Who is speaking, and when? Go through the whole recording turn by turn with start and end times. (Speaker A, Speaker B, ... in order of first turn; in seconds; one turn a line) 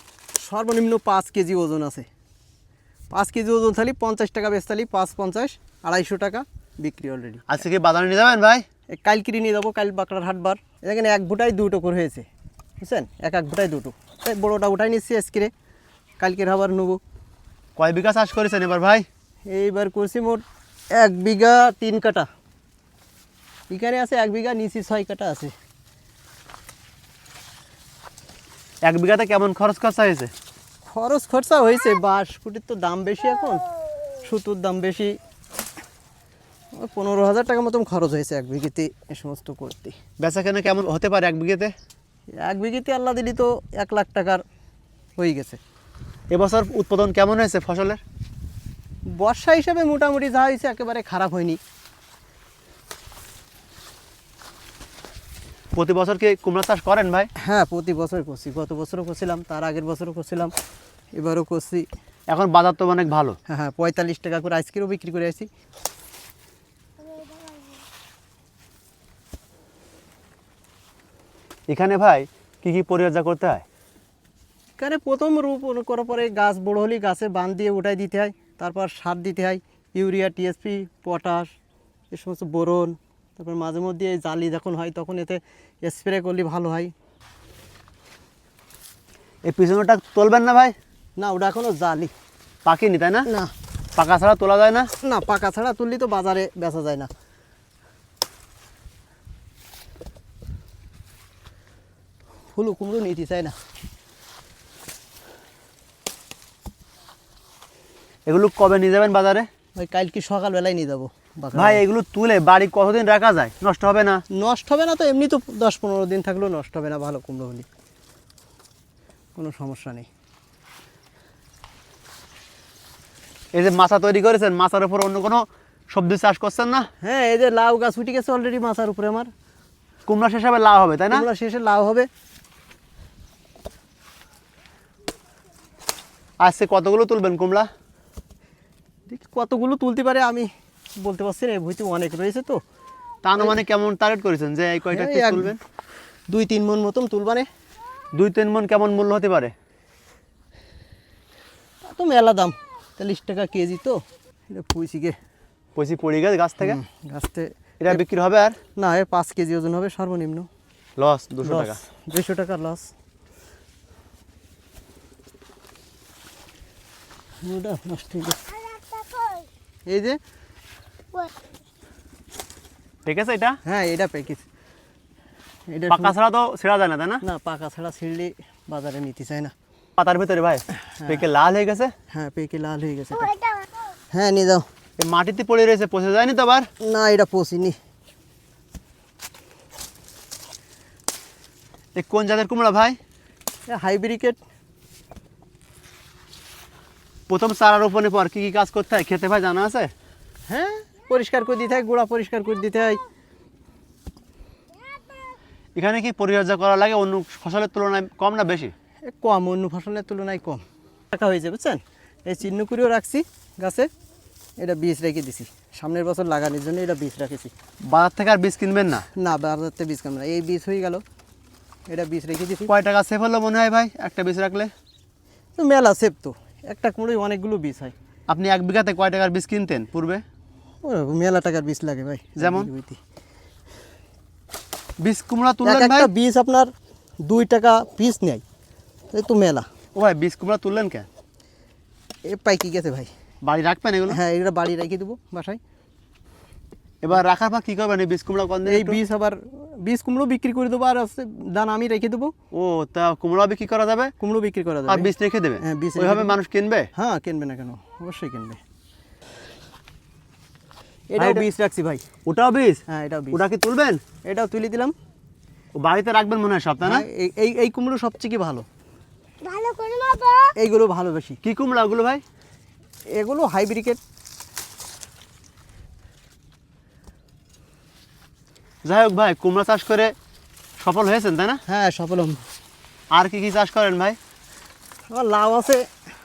Speaker A: 0.3-2.1
Speaker A: 3.1-7.6
Speaker B: 7.5-8.6
Speaker A: 8.9-12.2
Speaker A: 12.8-15.5
Speaker A: 16.2-17.0
Speaker B: 17.8-19.1
Speaker A: 19.5-22.3
Speaker A: 23.7-25.5
Speaker B: 28.8-30.3
Speaker A: 30.9-33.6
Speaker A: 34.2-35.2
Speaker A: 36.8-40.0
Speaker B: 40.2-41.7
Speaker A: 42.4-44.4
Speaker A: 45.2-45.6
Speaker B: 46.3-48.0
Speaker A: 49.1-51.6
Speaker B: 55.7-57.3
Speaker A: 57.4-60.5
Speaker A: 61.1-61.9
Speaker B: 62.3-63.4
Speaker A: 63.5-65.5
Speaker C: 67.0-67.6
Speaker B: 71.7-73.6
Speaker A: 74.8-81.5
Speaker A: 82.1-86.9
Speaker B: 89.4-90.8
Speaker A: 91.2-92.1
Speaker B: 92.6-93.3
Speaker A: 93.2-93.5
Speaker B: 94.0-94.9
Speaker A: 95.0-97.1
Speaker A: 102.5-103.5
Speaker B: 108.2-109.5
Speaker A: 109.8-111.8
Speaker B: 111.5-114.2
Speaker A: 114.3-117.7
Speaker A: 119.3-120.1
Speaker B: 123.5-126.9
Speaker A: 127.0-129.3
Speaker B: 130.1-131.2
Speaker A: 131.1-132.1
Speaker B: 136.4-137.7
Speaker A: 139.1-140.5
Speaker A: 141.0-142.6
Speaker B: 143.2-145.6
Speaker A: 144.9-145.5
Speaker A: 146.3-147.5
Speaker B: 148.1-149.5
Speaker A: 151.9-155.2
Speaker B: 155.8-156.8
Speaker A: 156.6-158.0
Speaker B: 157.8-158.6
Speaker A: 158.8-160.5
Speaker B: 161.0-161.8
Speaker A: 161.4-162.9
Speaker A: 167.4-168.5
Speaker C: 168.8-169.4
Speaker A: 169.9-170.2
Speaker B: 173.1-173.6
Speaker A: 173.6-174.4
Speaker A: 175.7-176.1
Speaker B: 175.9-177.2
Speaker A: 177.2-179.5
Speaker B: 180.0-181.9
Speaker A: 181.0-181.2
Speaker A: 182.1-183.4
Speaker A: 184.1-184.7
Speaker B: 185.0-186.7
Speaker A: 186.8-187.8
Speaker B: 191.9-193.0
Speaker A: 193.7-194.4
Speaker B: 197.3-199.9
Speaker A: 200.5-203.0
Speaker B: 205.7-208.7
Speaker A: 209.0-213.9
Speaker A: 214.6-217.5
Speaker B: 217.9-219.1
Speaker A: 219.1-221.0
Speaker A: 221.9-222.7
Speaker B: 222.7-224.7
Speaker A: 225.6-227.9
Speaker B: 228.3-230.2
Speaker A: 230.8-233.0
Speaker B: 232.4-232.7
Speaker B: 235.0-236.1
Speaker A: 235.6-236.7
Speaker A: 237.2-238.4
Speaker A: 239.1-239.7
Speaker B: 239.9-241.1
Speaker A: 242.2-243.1
Speaker B: 243.4-244.2
Speaker A: 244.1-245.6
Speaker B: 247.0-249.0
Speaker A: 248.6-252.3
Speaker B: 252.5-254.1
Speaker A: 254.2-255.1
Speaker B: 254.9-256.9
Speaker A: 255.6-256.4
Speaker A: 256.9-258.6
Speaker A: 261.1-262.0
Speaker B: 261.2-261.4
Speaker B: 262.2-264.0
Speaker A: 262.9-263.4
Speaker A: 264.2-264.9
Speaker B: 265.7-267.0
Speaker A: 266.8-268.6
Speaker C: 269.4-270.5
Speaker A: 270.5-271.4
Speaker B: 271.4-272.2
Speaker A: 273.1-274.0
Speaker B: 278.8-280.1
Speaker B: 280.8-281.6
Speaker A: 281.7-282.4
Speaker B: 283.1-284.2
Speaker A: 285.1-285.9